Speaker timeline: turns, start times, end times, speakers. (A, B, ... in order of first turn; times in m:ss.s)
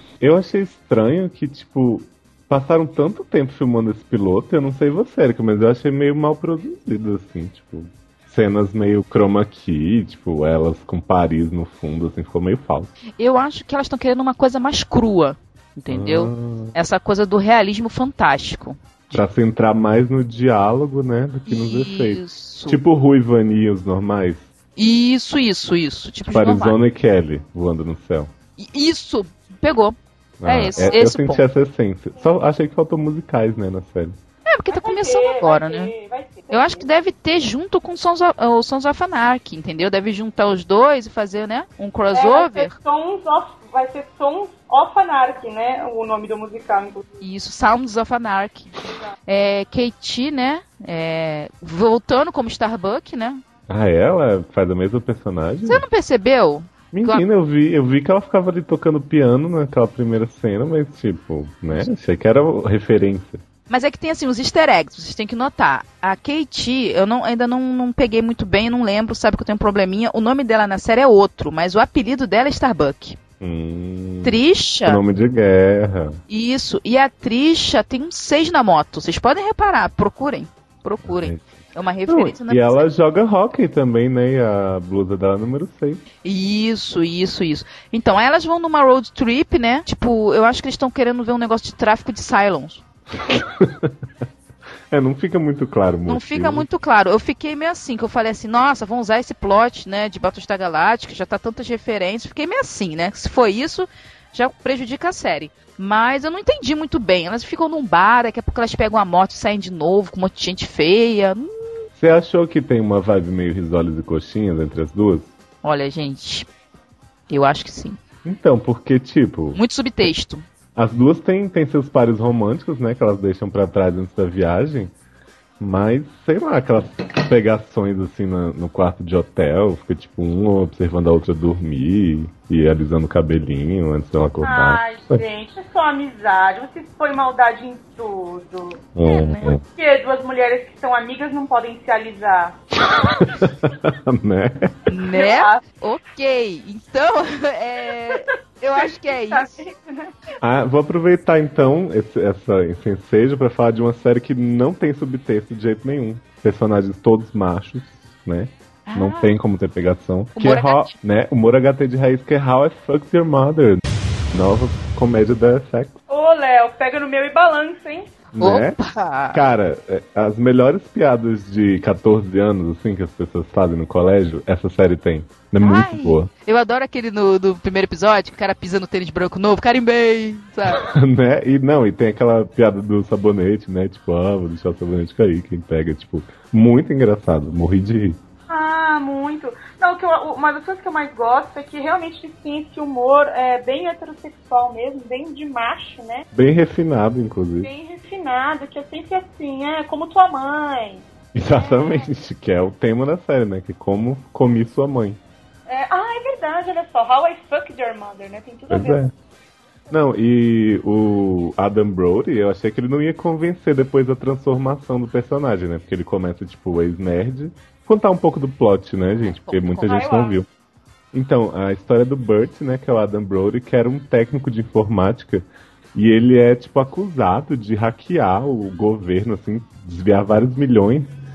0:00.2-0:12.9 A
0:13.2-0:19.2 B
0:15.9-0:16.7 A
0:19.1-0:24.5 A
0:21.5-0:22.8 B
0:24.8-0:26.8 B
0:26.2-0:28.3 A
0:28.6-0:31.4 B
0:30.4-0:34.2 A
0:34.4-0:35.9 B
0:34.7-0:36.9 C
0:36.5-0:42.8 B
0:42.1-0:47.2 C
0:47.2-0:53.4 B
0:53.7-0:55.8 A
0:55.6-0:57.2 B
0:56.9-1:03.4 A
1:03.7-1:13.2 B
1:13.4-1:16.2 A
1:14.2-1:15.0 B
1:16.3-1:22.8 B
1:21.1-1:21.4 A
1:22.1-1:26.0 A
1:26.2-1:32.8 B
1:33.2-1:33.9 A
1:34.9-1:36.7 A
1:36.1-1:51.5 B
1:51.9-1:55.3 A
1:55.6-1:56.5 B
1:57.3-1:58.0 B
1:58.2-1:59.6 A
1:59.5-2:00.4 B
2:00.7-2:04.9 A
2:05.6-2:15.2 A
2:14.4-2:18.8 C
2:18.9-2:19.6 A
2:19.0-2:19.6 B
2:19.7-2:22.6 C
2:22.9-2:24.7 A
2:24.9-2:29.6 B
2:25.1-2:25.6 C
2:28.7-2:30.1 C
2:30.4-2:46.0 A
2:38.8-2:39.3 B
2:40.4-2:40.9 B
2:46.1-2:48.1 C
2:48.3-2:48.8 A
2:48.4-2:49.4 B
2:49.3-2:56.3 A
2:55.6-3:00.8 B
3:00.7-3:08.2 A
3:08.5-3:16.3 C
3:16.3-3:17.7 A
3:17.6-3:22.1 C
3:21.3-3:25.2 A
3:25.7-3:29.0 C
3:28.7-3:29.1 A
3:29.9-3:40.5 A
3:39.2-3:40.0 B
3:39.8-3:40.4 C
3:41.1-3:51.1 A